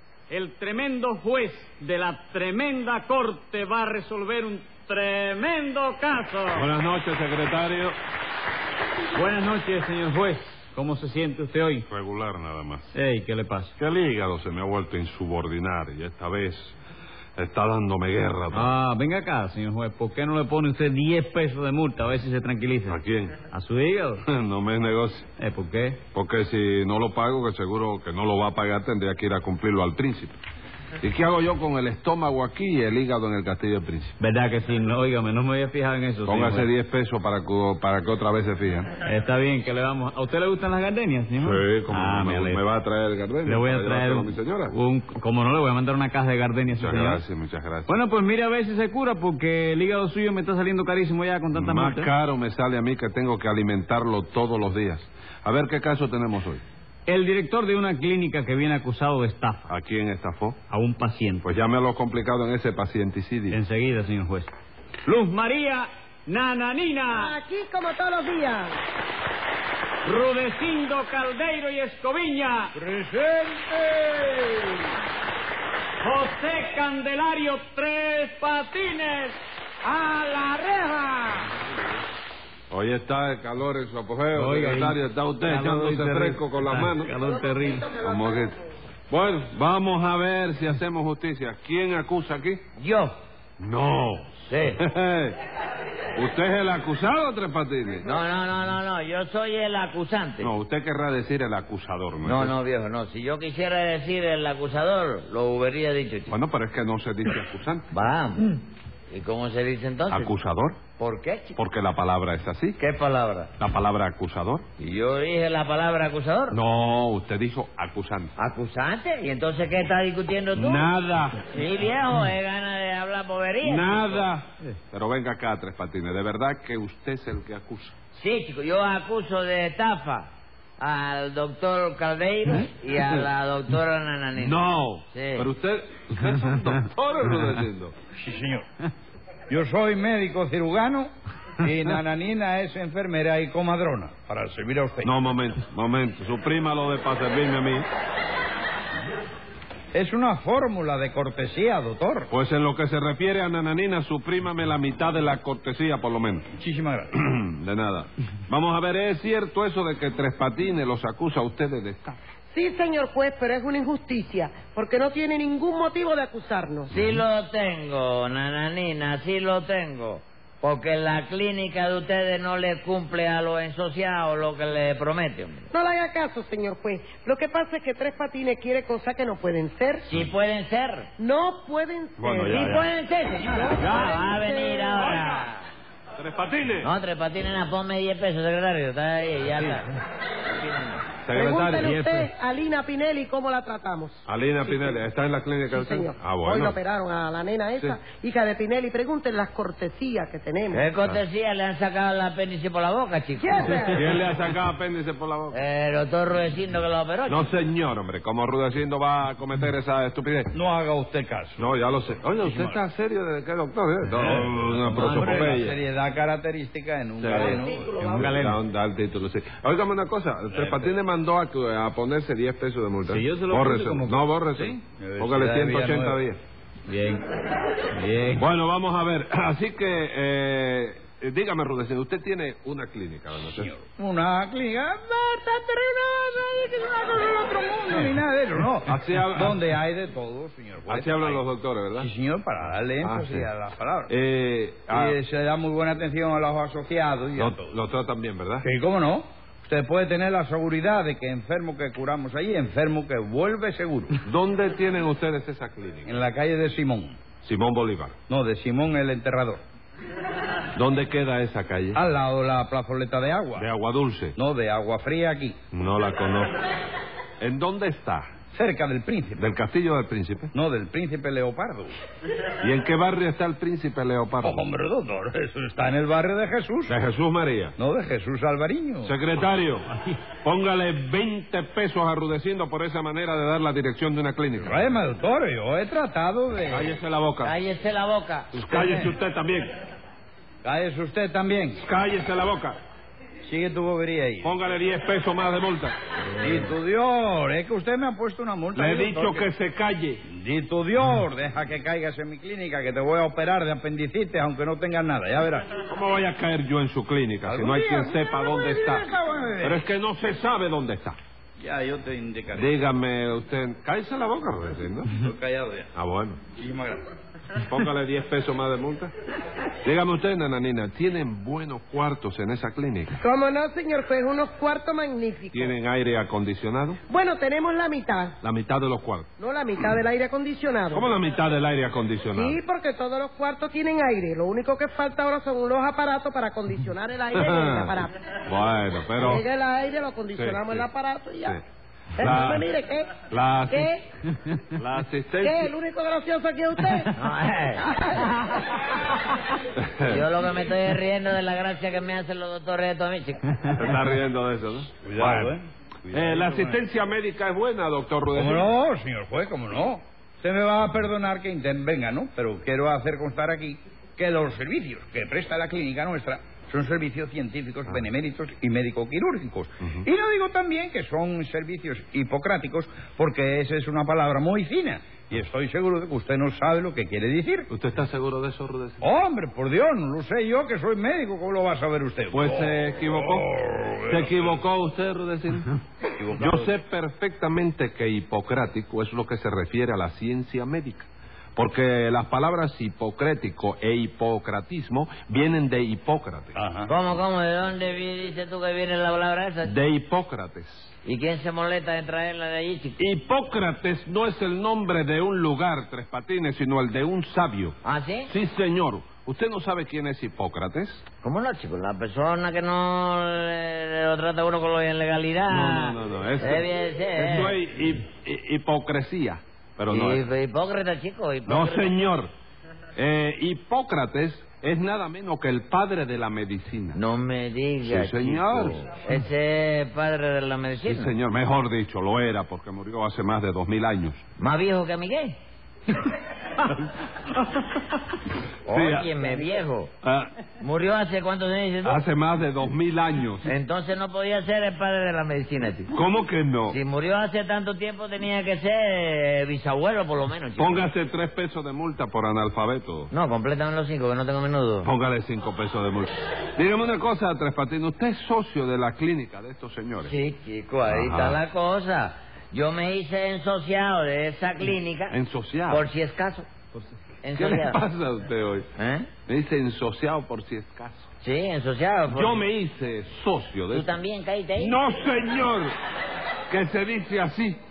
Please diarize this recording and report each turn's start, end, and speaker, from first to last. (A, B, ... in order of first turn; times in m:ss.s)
0:00.3-0:06.7 A
0:06.5-0:08.0 B
0:09.1-0:11.9 A
0:11.9-0:13.0 B
0:12.9-0:13.7 A
0:13.8-0:16.8 B
0:17.4-0:18.7 B
0:18.5-0:24.2 A
0:22.9-0:23.4 B
0:24.2-0:25.3 B
0:25.4-0:26.0 A
0:26.1-0:30.4 B
0:31.0-0:34.2 B
0:34.2-0:36.7 A
0:36.2-0:38.9 B
0:39.0-0:42.6 A
0:41.4-0:44.8 B
0:43.4-0:47.2 A
0:46.8-0:47.9 B
0:47.9-0:52.1 A
0:51.5-0:56.6 B
0:57.1-0:59.7 A
0:59.7-1:00.6 B
1:00.7-1:01.4 A
1:01.4-1:03.6 B
1:03.5-1:04.5 A
1:05.0-1:07.4 A
1:07.1-1:08.7 C
1:10.0-1:12.7 A
1:12.8-1:14.6 D
1:16.0-1:19.4 A
1:19.8-1:21.2 C
1:22.7-1:27.1 B
1:24.3-1:27.9 A
1:27.2-1:28.4 C
1:28.0-1:28.6 B
1:29.1-1:32.6 B
1:32.8-1:33.1 E
1:33.6-1:35.4 B
1:34.4-1:34.8 E
1:36.1-1:38.1 B
1:38.0-1:40.5 E
1:40.4-1:42.6 B
1:42.2-1:46.3 E
1:46.3-1:47.9 B
1:47.9-1:50.3 E
1:50.1-1:50.8 B
1:51.0-1:51.6 E
1:51.6-1:52.8 B
1:52.8-1:53.5 E
1:53.6-1:54.7 B
1:54.8-1:56.6 E
1:56.5-1:58.3 B
1:58.4-2:00.9 E
2:00.5-2:01.5 B
2:01.4-2:04.2 E
2:03.6-2:08.0 B
2:08.1-2:15.5 E
2:14.4-2:17.9 B
2:18.1-2:18.7 D
2:19.5-2:25.1 D
2:25.0-2:27.9 B
2:29.9-2:32.3 D
2:32.3-2:36.5 B
2:36.6-2:37.1 D
2:37.2-2:42.2 B
2:42.5-2:46.9 C
2:46.9-2:55.7 E
2:46.9-2:47.2 B
2:55.7-3:00.1 C
3:00.0-3:01.1 E
3:01.2-3:05.2 C
3:02.2-3:02.9 B
3:02.5-3:05.7 E
3:03.8-3:04.2 B
3:06.2-3:06.9 B
3:06.8-3:09.9 E
3:10.4-3:11.0 E
3:11.2-3:12.1 B
3:11.3-3:15.0 C
3:14.3-3:16.8 B
3:15.7-3:20.9 C
3:20.7-3:23.8 E
3:23.4-3:24.1 C
3:23.8-3:25.6 B
3:25.5-3:27.5 E
3:27.3-3:30.5 B
3:30.5-3:31.6 D
3:31.6-3:35.8 B
3:32.4-3:32.8 D
3:34.2-3:38.0 D
3:37.2-3:46.4 B
3:37.3-3:38.6 A
3:40.5-3:40.9 D
3:43.0-3:44.2 A
3:44.6-3:46.2 D
3:46.9-3:48.5 A
3:48.3-3:53.7 B
3:53.5-4:01.4 D
3:58.9-3:59.6 B
4:00.9-4:02.1 B
4:02.0-4:04.1 D
4:03.0-4:03.5 B
4:04.1-4:05.2 B
4:04.9-4:07.6 D
4:07.4-4:08.7 B
4:08.6-4:14.2 D
4:14.2-4:16.1 B
4:16.1-4:17.2 D
4:17.4-4:18.2 B
4:18.3-4:19.6 D
4:20.8-4:22.0 B
4:22.0-4:23.7 D
4:23.6-4:24.4 B
4:24.4-4:25.6 D
4:25.7-4:26.7 B
4:27.4-4:28.3 B
4:28.5-4:29.5 D
4:29.4-4:30.5 B
4:30.5-4:32.0 D
4:32.6-4:34.7 B
4:34.4-4:36.9 D
4:36.9-4:37.8 B
4:37.8-4:39.1 D
4:39.0-4:44.7 B
4:44.6-4:46.9 D
4:46.7-4:47.5 B
4:47.4-4:48.5 E
4:48.5-4:49.7 B
4:48.6-4:49.2 D
4:50.6-4:51.8 D
4:51.8-4:52.8 B
4:53.4-4:54.5 D
4:54.4-4:56.0 B
4:56.4-4:59.5 D
4:58.8-5:00.2 B
5:00.3-5:05.8 D
5:05.8-5:11.2 B
5:07.5-5:09.8 D
5:11.6-5:12.8 D
5:12.6-5:15.1 B
5:15.2-5:15.9 D
5:16.0-5:16.4 B
5:16.6-5:17.1 D
5:17.7-5:19.1 B
5:19.8-5:23.2 B
5:23.2-5:25.8 C
5:25.5-5:27.0 B
5:27.1-5:28.4 C
5:28.4-5:29.3 B
5:29.4-5:31.1 C
5:30.9-5:32.6 B
5:32.3-5:38.1 C
5:37.3-5:39.4 B
5:39.2-5:41.6 C
5:40.3-5:40.9 B
5:42.2-5:44.0 C
5:42.2-5:42.7 B
5:43.3-5:43.9 B
5:44.7-5:45.7 B
5:45.4-5:47.1 C
5:47.2-5:47.9 E
5:47.8-5:48.8 C
5:49.8-5:50.2 B
5:50.0-5:53.4 E
5:53.7-5:55.6 B
5:55.0-5:56.8 D
5:56.1-5:58.7 B
5:58.3-6:17.7 D
6:17.7-6:19.0 B
6:19.0-6:24.5 D
6:22.3-6:23.5 B
6:24.1-6:25.7 B
6:26.2-6:26.8 D
6:26.4-6:36.6 B
6:36.6-6:36.9 D
6:36.9-6:39.7 E
6:39.6-6:41.0 B
6:41.0-6:43.0 E
6:43.0-6:47.8 B
6:47.8-6:48.3 E
6:48.3-6:51.1 B
6:51.2-6:57.6 E
6:55.5-7:00.3 B
6:59.9-7:02.0 E
7:01.5-7:02.3 B
7:03.0-7:07.0 B
7:07.0-7:11.1 E
7:07.8-7:08.8 B
7:10.8-7:14.2 B
7:14.4-7:15.4 E
7:18.7-7:19.9 E
7:18.7-7:19.1 B
7:20.0-7:20.3 B
7:20.6-7:22.0 E
7:21.8-7:23.5 B
7:23.5-7:25.9 E
7:25.9-7:26.8 B
7:26.7-7:30.9 E
7:30.6-7:33.1 B
7:33.1-7:34.9 E
7:34.8-7:40.1 B
7:40.0-7:45.2 E
7:40.9-7:41.4 B
7:45.1-7:45.9 B
7:45.7-7:46.5 E
7:47.2-7:47.8 E
7:47.4-7:48.7 B
7:48.8-7:49.1 E
7:49.3-7:51.1 B
7:51.2-7:52.4 E
7:52.1-7:53.9 B
7:53.7-7:54.8 E
7:54.6-7:55.7 B
7:56.5-7:57.6 B